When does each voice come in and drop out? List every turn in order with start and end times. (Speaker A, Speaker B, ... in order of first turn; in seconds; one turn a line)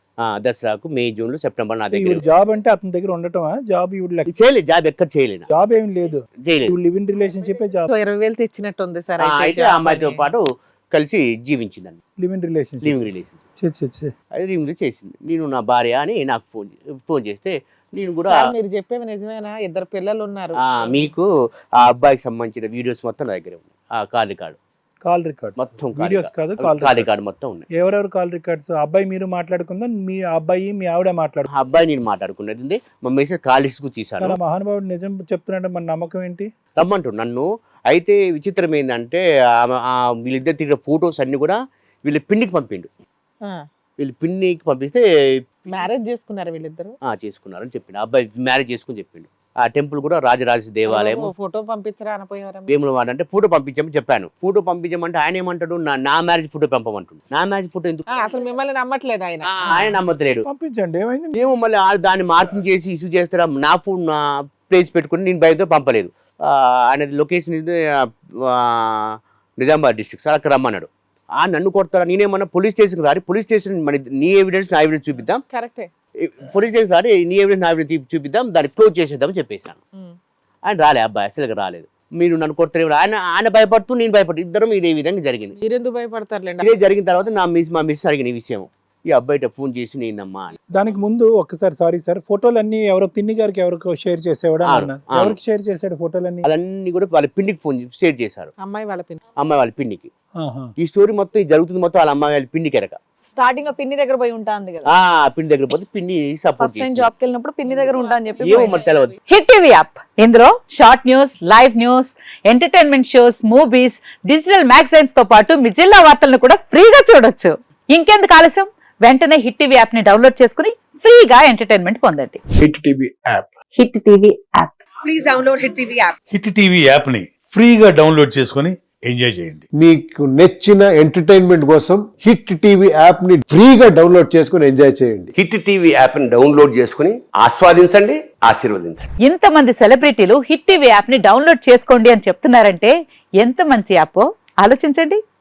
Speaker A: 0.2-2.2
Speaker B: 1.9-4.3
Speaker A: 4.3-5.5
Speaker B: 5.5-7.9
Speaker A: 6.4-6.8
Speaker C: 7.9-10.2
Speaker A: 9.2-12.0
Speaker B: 12.2-13.0
Speaker A: 12.8-13.4
Speaker B: 13.6-14.1
Speaker A: 14.4-18.4
Speaker C: 18.3-21.1
Speaker A: 20.6-21.3
Speaker A: 21.8-24.6
Speaker B: 25.1-27.1
Speaker A: 25.6-27.7
Speaker B: 27.7-31.5
Speaker A: 31.5-34.4
Speaker B: 34.2-36.5
Speaker A: 36.8-42.9
Speaker A: 44.0-45.0
Speaker C: 45.7-47.0
Speaker A: 47.0-51.3
Speaker C: 50.9-52.7
Speaker A: 52.7-58.1
Speaker C: 58.2-59.9
Speaker A: 59.5-60.5
Speaker B: 60.5-61.4
Speaker A: 61.4-75.4
Speaker C: 75.5-75.9
Speaker A: 76.2-79.8
Speaker A: 80.7-85.6
Speaker C: 85.6-86.7
Speaker A: 86.6-90.6
Speaker B: 90.7-96.5
Speaker A: 94.7-95.4
Speaker A: 96.4-98.5
Speaker C: 98.6-99.2
Speaker A: 99.4-100.1
Speaker B: 100.4-100.7
Speaker A: 100.8-103.0
Speaker D: 103.3-104.9
Speaker A: 104.8-107.1
Speaker D: 106.6-108.7
Speaker C: 107.7-109.1
Speaker A: 108.4-109.2
Speaker E: 109.3-122.4
Speaker F: 122.7-123.2
Speaker G: 122.8-123.5
Speaker E: 123.8-124.8
Speaker H: 126.3-129.7
Speaker G: 129.7-135.4
Speaker F: 135.4-139.1
Speaker E: 139.2-145.2